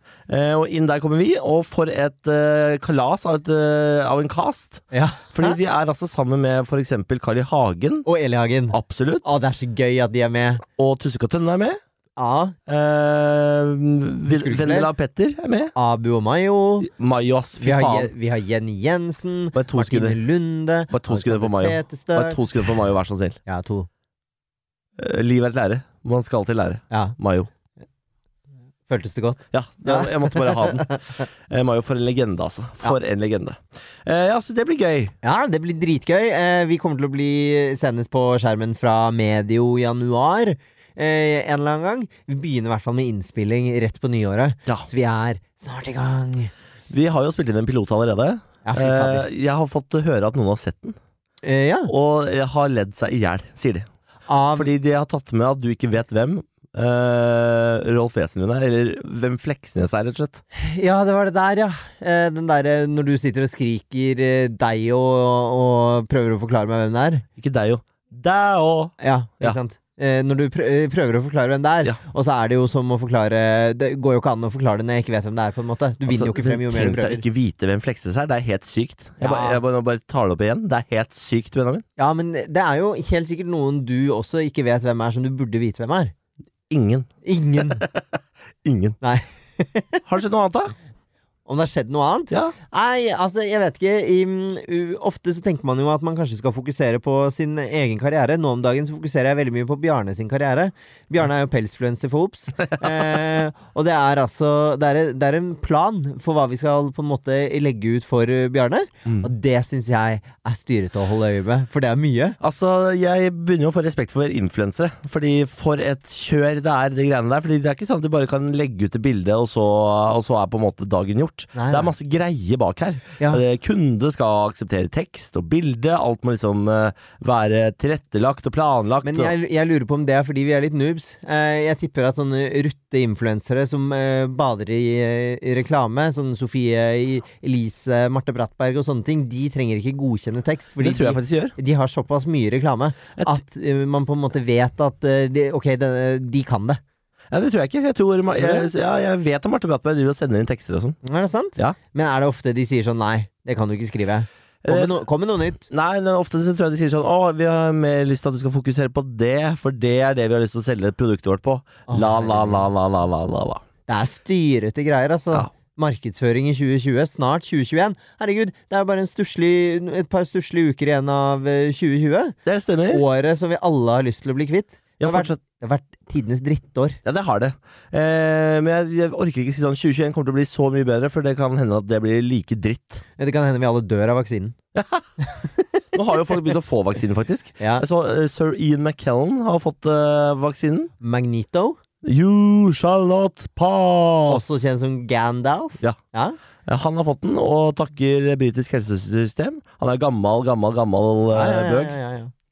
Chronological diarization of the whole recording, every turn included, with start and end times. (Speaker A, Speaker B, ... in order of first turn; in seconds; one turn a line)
Speaker A: 0.3-8.1
Speaker B: 4.9-5.6
Speaker B: 8.0-10.6
Speaker A: 8.7-9.2
Speaker A: 10.8-11.8
Speaker B: 12.2-12.6
Speaker A: 12.7-15.7
Speaker B: 14.3-14.9
Speaker B: 15.7-16.9
Speaker A: 16.8-18.1
Speaker B: 17.6-22.8
Speaker A: 19.6-20.2
Speaker A: 20.9-23.4
Speaker B: 23.5-23.9
Speaker A: 25.0-27.5
Speaker B: 26.9-27.2
Speaker B: 28.9-31.2
Speaker A: 29.5-35.1
Speaker B: 35.2-46.5
Speaker A: 46.9-51.0
Speaker B: 48.6-49.2
Speaker B: 51.4-51.9
Speaker A: 51.9-53.9
Speaker B: 54.3-54.7
Speaker A: 54.5-60.4
Speaker B: 60.5-67.2
Speaker A: 67.4-69.6
Speaker B: 69.0-77.2
Speaker A: 76.0-81.8
Speaker B: 79.2-79.6
Speaker B: 82.0-86.1
Speaker A: 86.7-88.0
Speaker B: 87.2-87.8
Speaker A: 88.6-89.0
Speaker B: 89.0-90.0
Speaker A: 90.0-90.7
Speaker B: 91.5-112.3
Speaker A: 112.4-129.3
Speaker B: 121.5-121.9
Speaker B: 129.0-146.8
Speaker A: 140.8-141.5
Speaker A: 147.3-151.0
Speaker B: 148.3-148.7
Speaker B: 151.0-155.7
Speaker A: 154.6-155.0
Speaker A: 155.7-163.6
Speaker B: 161.9-162.7
Speaker B: 163.9-172.3
Speaker A: 172.5-173.0
Speaker B: 172.9-177.0
Speaker A: 175.0-175.4
Speaker A: 177.0-183.0
Speaker B: 183.2-184.6
Speaker A: 184.7-185.1
Speaker A: 185.9-190.9
Speaker B: 187.6-187.8
Speaker B: 191.0-191.8
Speaker A: 192.0-194.5
Speaker B: 194.3-196.4
Speaker A: 196.7-201.9
Speaker B: 201.3-202.3